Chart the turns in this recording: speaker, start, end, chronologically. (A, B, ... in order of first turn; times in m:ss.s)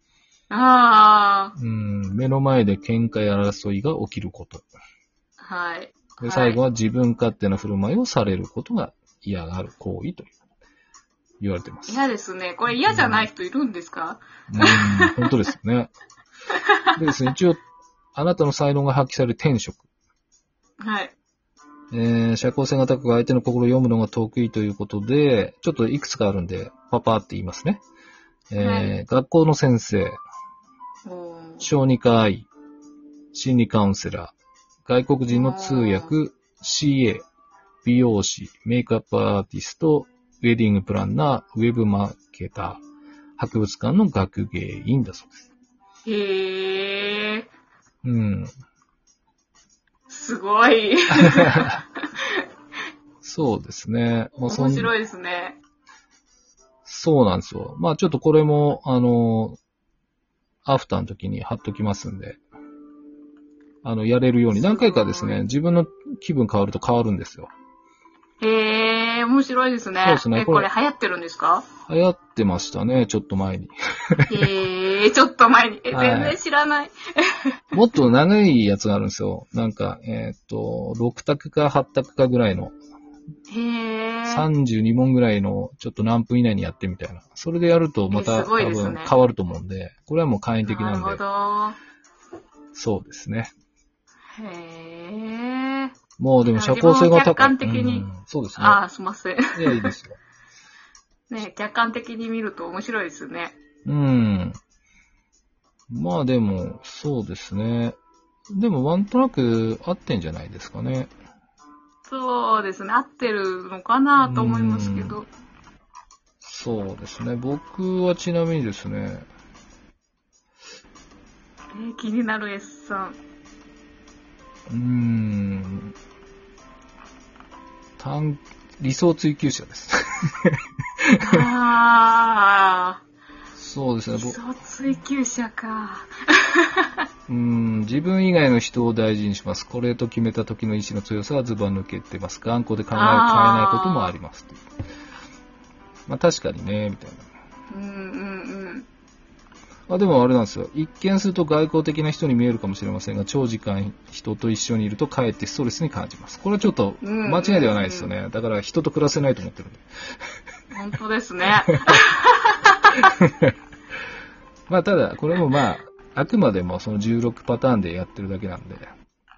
0:00.5-0:01.5 A
0:01.6-0:04.6 B
0:05.4-0:06.6 A
0:06.2-0:10.3 B
0:11.4-0:12.0 B
0:11.9-0:15.3 A
0:12.8-0:13.3 B
0:14.5-0:15.9 B
0:16.5-0:17.0 A
0:16.9-0:17.6 B
0:18.1-0:19.8 B
0:20.8-0:21.1 A
0:21.9-0:27.8 B
0:28.5-0:30.2 B
0:28.6-0:28.9 A
0:31.0-0:31.6 A
0:31.6-0:32.5 B
0:33.3-0:34.3 B
0:34.8-0:37.2 B
0:35.3-0:36.1 A
0:37.8-0:42.8 B
0:43.4-0:45.5 B
0:46.0-0:47.5 A
0:48.0-0:48.5 B
0:50.1-0:52.4 A
0:51.2-0:51.8 B
0:53.2-0:54.9 B
0:54.4-0:55.6 A
0:56.8-0:59.6 B
1:00.6-1:02.4 B
1:03.8-1:07.5 B
1:04.5-1:05.5 A
1:08.4-1:11.7 A
1:10.0-1:10.7 B
1:11.8-1:14.3 B
1:14.3-1:17.6 A
1:15.9-1:16.4 B
1:17.7-1:22.7 B
1:23.5-1:24.4 A
1:24.2-1:31.2 B
1:28.1-1:29.1 A
1:30.6-1:31.8 A
1:32.7-1:33.5 B
1:34.3-1:35.9 A
1:36.2-1:38.8 B
1:36.5-1:39.9 A
1:39.5-1:40.2 B
1:41.3-1:43.6 A
1:43.8-1:44.6 B
1:45.9-1:48.0 B
1:48.5-1:51.1 B
1:52.1-1:55.3 A
1:54.2-1:55.2 B
1:56.4-1:59.3 B
2:01.7-2:03.2 A
2:04.7-2:05.9 B
2:08.0-2:11.4 B
2:11.2-2:13.0 A
2:13.6-2:14.4 B
2:14.1-2:17.0 A
2:17.3-2:24.6 B
2:22.9-2:24.1 A
2:26.1-2:27.2 B
2:27.7-2:28.9 A
2:29.9-2:39.8 B
2:37.0-2:38.1 A
2:40.7-2:42.8 A
2:43.0-2:43.5 B
2:44.7-2:48.9 B